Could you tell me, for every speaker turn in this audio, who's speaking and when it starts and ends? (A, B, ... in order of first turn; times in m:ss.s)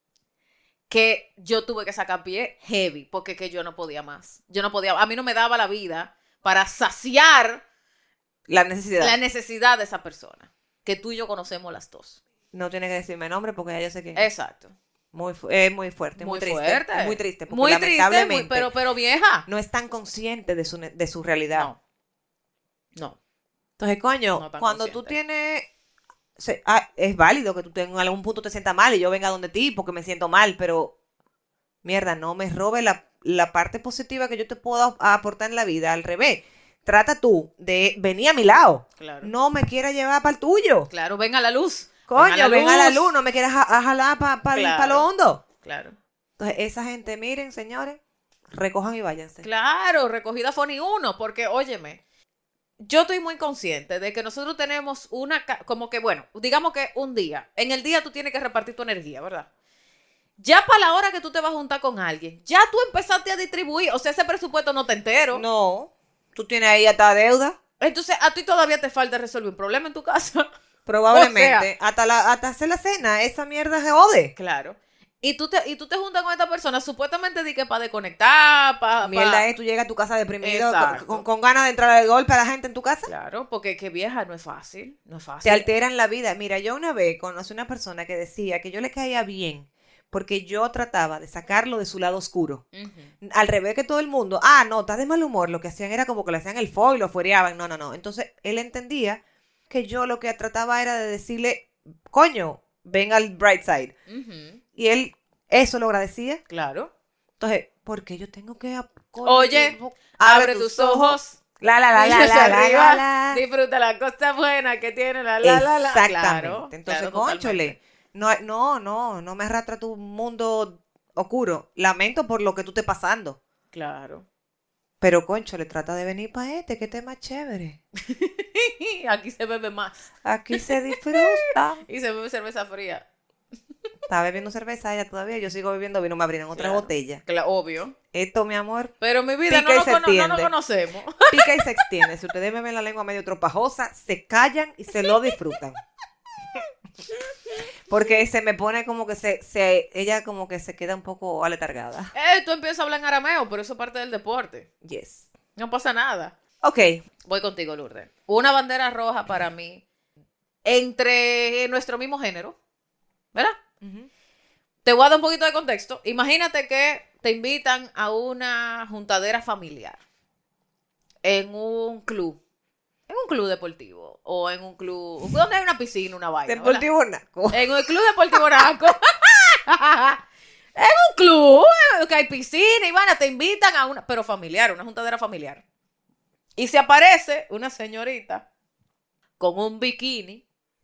0:00.9-0:07.6 A
0:08.5-0:09.1 B
0:09.0-0:12.2 A
0:12.5-0:14.2 B
0:14.1-0:14.7 A
0:15.1-0:18.7 B
0:16.2-0:19.4 A
0:19.4-0:21.7 B
0:21.5-0:21.8 A
0:23.8-0:25.6 B
0:24.3-0:25.2 A
0:26.4-0:30.9 B
0:31.8-0:40.9 B
0:39.0-0:39.3 A
0:40.9-0:43.1 A
0:42.1-0:45.4 B
0:44.5-0:45.1 A
0:45.6-0:46.0 A
0:46.4-0:48.0 B
0:48.5-0:49.4 B
0:49.4-0:52.0 A
0:52.8-0:59.5 A
1:00.4-1:05.4 A
1:05.3-1:07.6 B
1:07.8-1:10.5 A
1:10.8-1:14.3 B
1:11.1-1:11.7 A
1:14.4-1:19.4 A
1:19.0-1:23.1 B
1:20.4-1:21.2 A
1:23.0-1:25.7 A
1:25.4-1:32.6 B
1:32.7-1:33.1 A
1:33.2-1:39.2 B
1:39.7-1:43.9 B
1:44.1-1:44.6 A
1:44.8-1:46.4 B
1:46.5-1:46.9 A
1:47.4-1:53.4 B
1:49.2-1:51.4 A
1:51.9-1:57.7 A
1:55.4-2:03.4 B
2:03.7-2:04.2 A
2:05.0-2:07.8 B
2:08.0-2:13.0 A
2:10.2-2:11.8 B
2:14.1-2:17.2 B
2:16.5-2:17.9 A
2:18.1-2:18.9 B
2:19.0-2:21.9 A
2:19.5-2:20.5 B
2:21.3-2:25.8 B
2:27.9-2:32.1 B
2:32.1-2:34.7 A
2:34.8-2:35.3 B
2:35.6-2:36.3 A
2:36.6-2:37.0 B
2:37.2-2:39.8 A
2:40.6-2:42.6 A
2:43.8-2:44.1 B
2:44.8-2:50.0 A
2:51.2-2:52.4 A
2:53.1-2:56.8 A
2:56.5-2:58.4 B
2:57.5-3:00.2 A
3:00.8-3:05.6 A
3:06.6-3:08.4 A
3:09.4-3:10.4 A